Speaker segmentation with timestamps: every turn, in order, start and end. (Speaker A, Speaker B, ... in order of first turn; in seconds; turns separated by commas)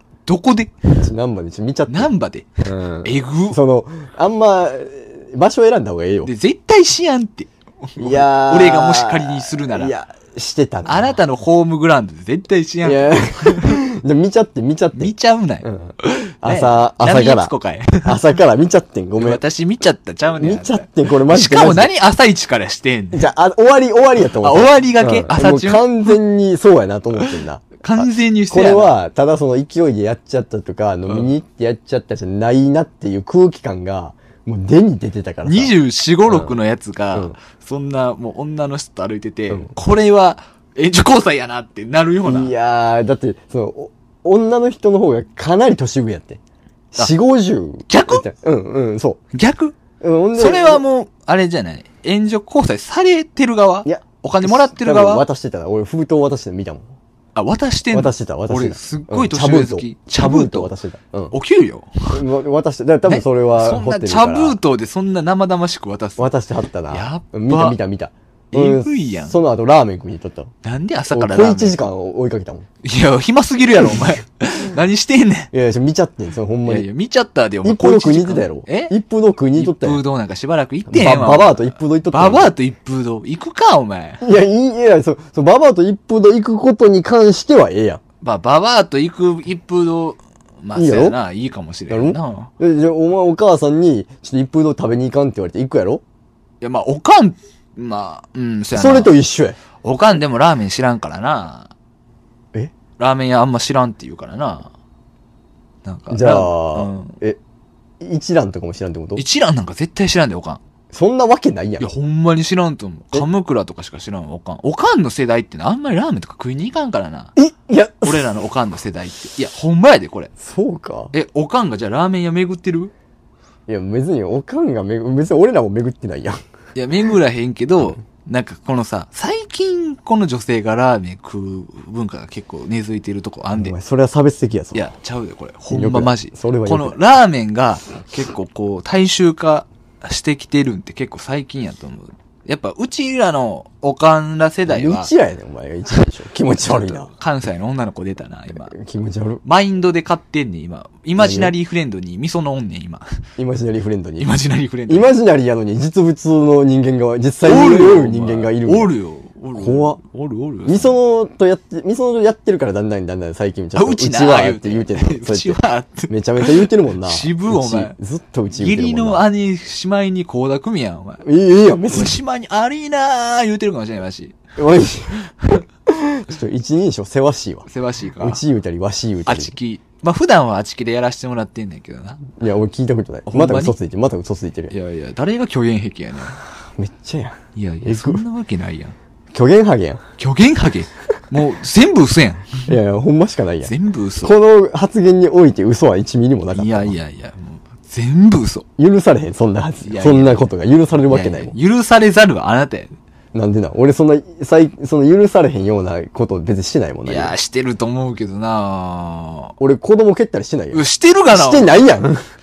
Speaker A: 0.2-1.0, Speaker B: 1.0-2.1, Speaker A: 1.9-3.6, Speaker B: 2.6-6.3, Speaker A: 6.2-9.9, Speaker B: 8.0-11.2, Speaker A: 10.9-13.8, Speaker B: 12.8-15.1, Speaker A: 14.9-18.4, Speaker B: 15.6-19.4, Speaker A: 19.2-23.3, Speaker B: 20.4-21.9, Speaker B: 23.1-35.7, Speaker A: 24.2-26.2, Speaker A: 27.2-28.9, Speaker A: 31.1-31.3, Speaker A: 35.4-42.5, Speaker B: 36.2-36.6, Speaker B: 42.2-46.4, Speaker B: 46.9-49.2, Speaker A: 47.9-48.2, Speaker A: 49.3-49.8, Speaker B: 50.0-50.8, Speaker A: 50.4-55.2, Speaker B: 53.9-56.9, Speaker A: 57.4-60.7, Speaker B: 57.9-61.3, Speaker A: 61.3-62.2, Speaker B: 62.1-64.6, Speaker A: 63.1-66.3, Speaker B: 66.2-70.5, Speaker A: 66.9-67.8, Speaker A: 68.5-69.3, Speaker A: 70.6-71.8, Speaker B: 71.1-72.7, Speaker A: 72.8-75.5, Speaker B: 75.5-76.9, Speaker A: 76.7-78.9, Speaker B: 77.6-80.0, Speaker A: 79.6-84.2, Speaker B: 80.9-82.5, Speaker B: 84.2-88.0, Speaker A: 88.2-92.5, Speaker B: 90.8-91.2, Speaker B: 91.9-96.0, Speaker A: 96.6-99.2, Speaker B: 98.8-99.6, Speaker A: 99.8-101.7, Speaker A: 103.0-104.7, Speaker A: 105.8-107.2, Speaker B: 106.1-107.4, Speaker B: 108.0-109.2, Speaker A: 109.2-110.6, Speaker B: 110.9-111.9, Speaker A: 111.8-117.3, Speaker B: 117.4-118.3, Speaker A: 118.0-120.3, Speaker B: 120.4-121.1, Speaker A: 121.1-122.9, Speaker B: 123.7-126.4, Speaker A: 126.8-133.7, Speaker B: 133.6-134.8, Speaker A: 134.7-145.1, Speaker B: 135.7-137.0, Speaker B: 144.7-147.1, Speaker A: 147.0-148.8, Speaker B: 148.7-149.4, Speaker A: 149.4-153.2, Speaker B: 151.2-151.5, Speaker B: 153.4-154.3, Speaker A: 154.2-155.1, Speaker B: 154.9-158.9, Speaker A: 157.4-160.9, Speaker B: 159.6-160.0, Speaker B: 160.7-169.2, Speaker A: 163.8-167.9, Speaker A: 168.5-171.2, Speaker B: 171.2-172.2, Speaker A: 171.9-174.4, Speaker B: 174.6-175.3, Speaker B: 175.8-177.7, Speaker A: 177.7-178.4, Speaker B: 178.2-179.6, Speaker A: 179.3-182.3, Speaker B: 182.4-184.7, Speaker A: 183.3-183.8, Speaker A: 184.7-186.4, Speaker B: 186.8-188.2, Speaker A: 187.6-188.9, Speaker B: 189.3-190.0, Speaker A: 190.2-192.7, Speaker B: 192.7-196.9, Speaker A: 193.6-194.3, Speaker A: 196.5-198.7, Speaker B: 198.8-201.5, Speaker A: 199.8-200.5, Speaker A: 201.1-202.9, Speaker B: 203.3-207.3, Speaker A: 207.1-209.5, Speaker B: 209.6-212.2, Speaker A: 210.7-211.9